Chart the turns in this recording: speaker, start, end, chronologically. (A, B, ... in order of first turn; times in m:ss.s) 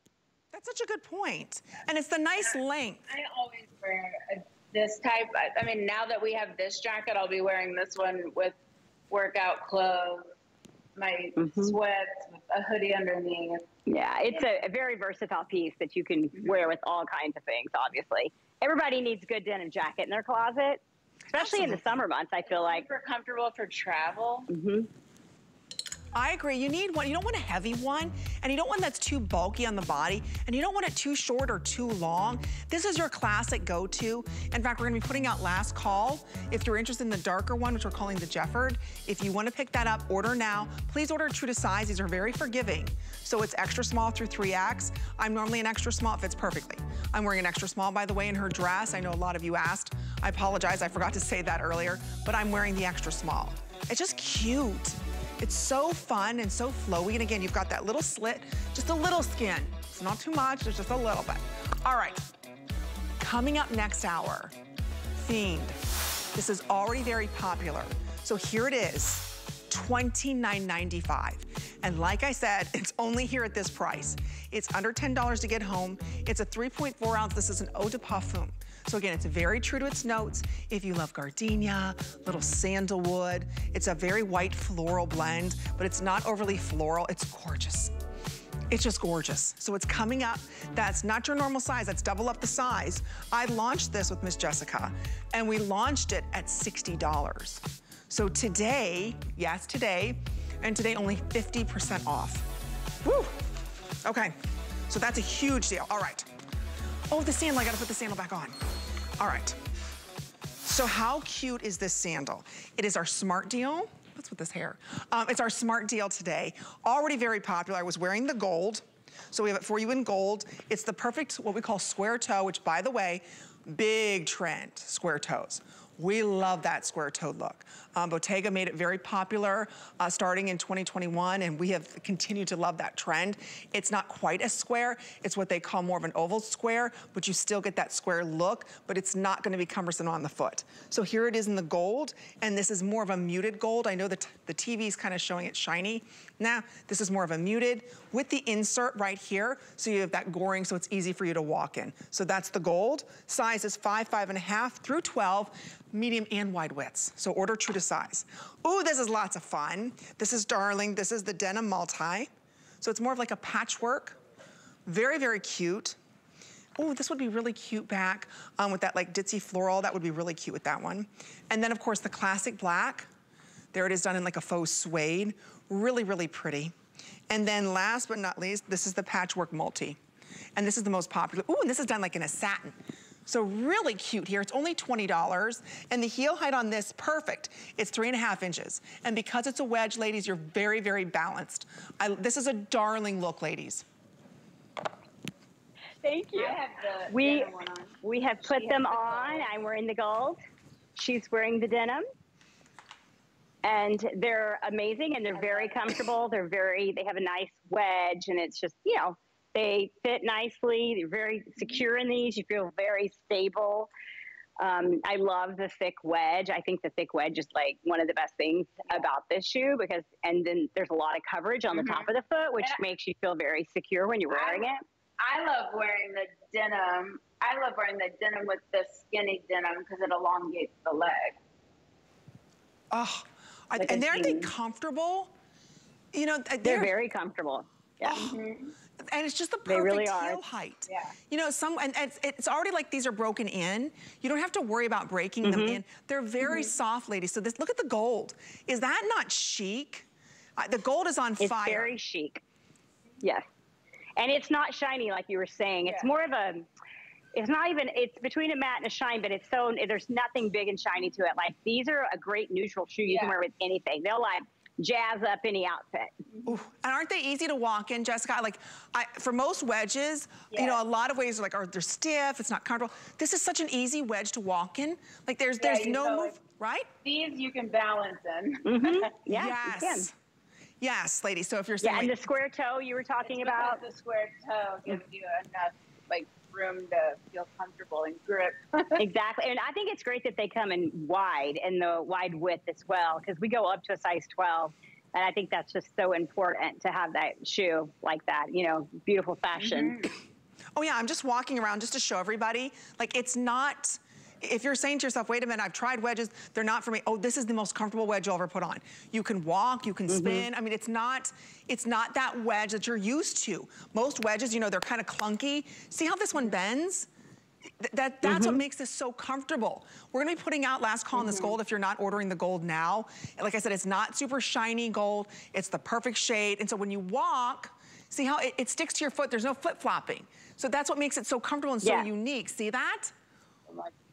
0:00.5-0:03.0 A
0:03.1-0:08.6 B
0:09.1-0:10.3 B
0:11.0-0:13.7 B
0:11.4-0:11.7 C
0:13.9-0:22.8 C
0:21.3-0:21.8 A
0:22.4-0:24.5 B
0:24.5-0:24.9 C
0:26.1-1:02.3 A
1:03.2-1:04.5 A
1:05.2-1:05.8 A
1:06.3-1:27.9 A
1:28.7-1:42.5 A
1:43.0-1:43.4 A
1:44.0-1:44.4 A
1:44.9-1:46.3 A
1:47.1-1:48.6 A
1:49.2-1:49.6 A
1:50.6-2:42.3 A
2:42.8-2:44.2 A
2:44.8-2:46.0 A
2:46.8-2:53.1 A
2:53.7-2:56.7 A
2:57.3-3:00.0 A
3:00.6-3:13.8 A
3:16.0-3:20.4 C
3:16.3-3:19.5 B
3:21.0-3:22.0 C
3:23.6-3:33.9 C
3:25.4-3:25.7 B
3:34.6-3:44.8 C
3:41.7-3:42.1 B
3:44.3-3:51.4 B
3:52.9-3:55.3 A
3:53.8-3:54.5 B
3:56.1-3:56.9 A
3:56.6-3:58.3 C
3:58.0-3:58.4 A
3:58.2-3:58.7 B
3:59.0-4:10.0 A
3:59.7-4:00.4 C
4:00.9-4:01.1 B
4:05.4-4:05.8 C
4:10.6-4:11.9 A
4:11.4-4:12.4 C
4:13.2-4:13.4 C
4:14.2-4:16.6 C
4:15.9-4:16.3 B
4:17.3-4:26.1 C
4:23.1-4:23.4 B
4:26.4-4:36.9 A
4:30.5-4:30.8 B
4:35.6-4:36.4 B
4:37.0-4:39.1 B
4:38.6-4:40.1 C
4:39.3-4:40.1 A
4:40.8-4:42.2 A
4:41.8-4:43.8 C
4:43.2-4:49.0 B
4:49.0-5:00.1 C
4:59.6-5:00.1 B
5:00.8-5:17.1 A
5:10.1-5:10.5 C
5:17.8-5:33.1 A
5:18.2-5:18.6 C
5:31.8-5:32.1 C
5:33.7-5:33.9 B